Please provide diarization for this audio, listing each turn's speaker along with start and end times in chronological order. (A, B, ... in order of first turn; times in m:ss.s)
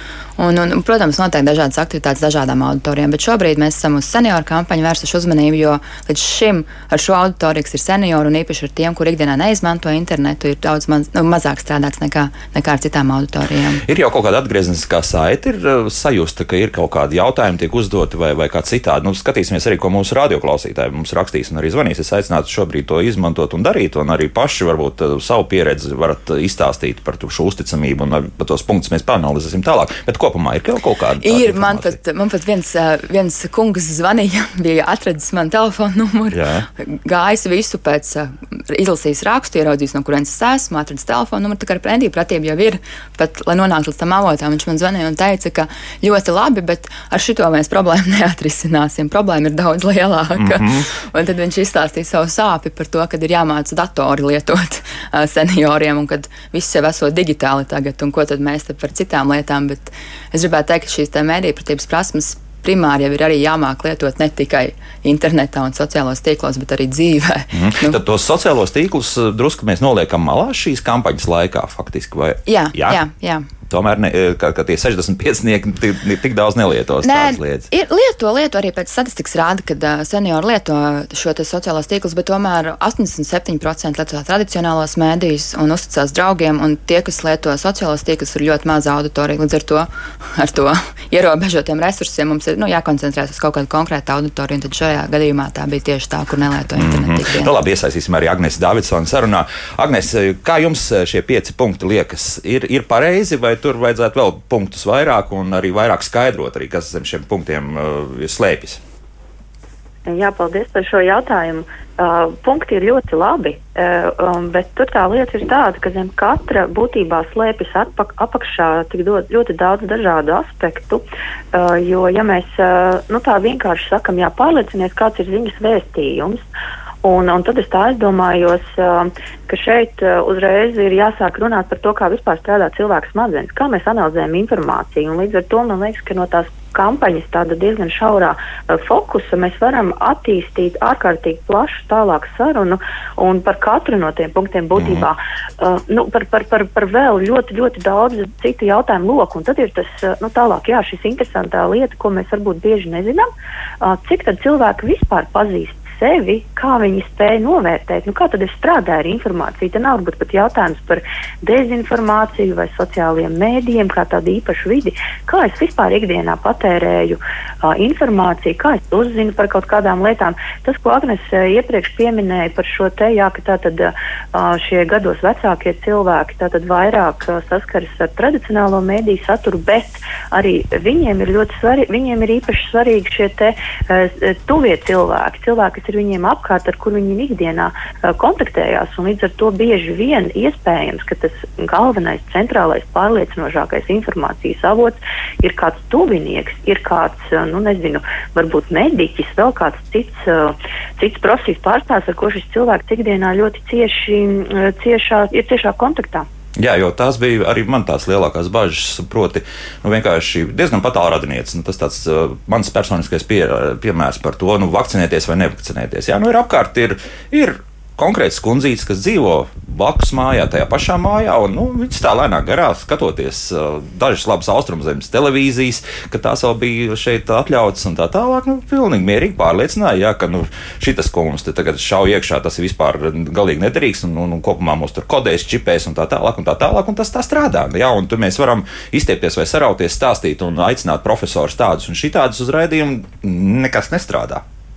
0:00.4-0:13.8 A
0:13.8-0:32.0 B
0:31.2-1:08.0 A
0:36.3-0:36.7 B
0:50.3-0:50.9 B
1:07.5-1:13.0 B
1:12.5-1:13.5 A
1:13.6-1:17.7 B
1:17.0-1:37.5 A
1:36.8-1:48.8 B
1:50.1-2:06.4 C
2:07.0-2:33.3 C
2:24.8-2:25.1 B
2:33.8-3:26.3 C
3:26.6-4:04.4 B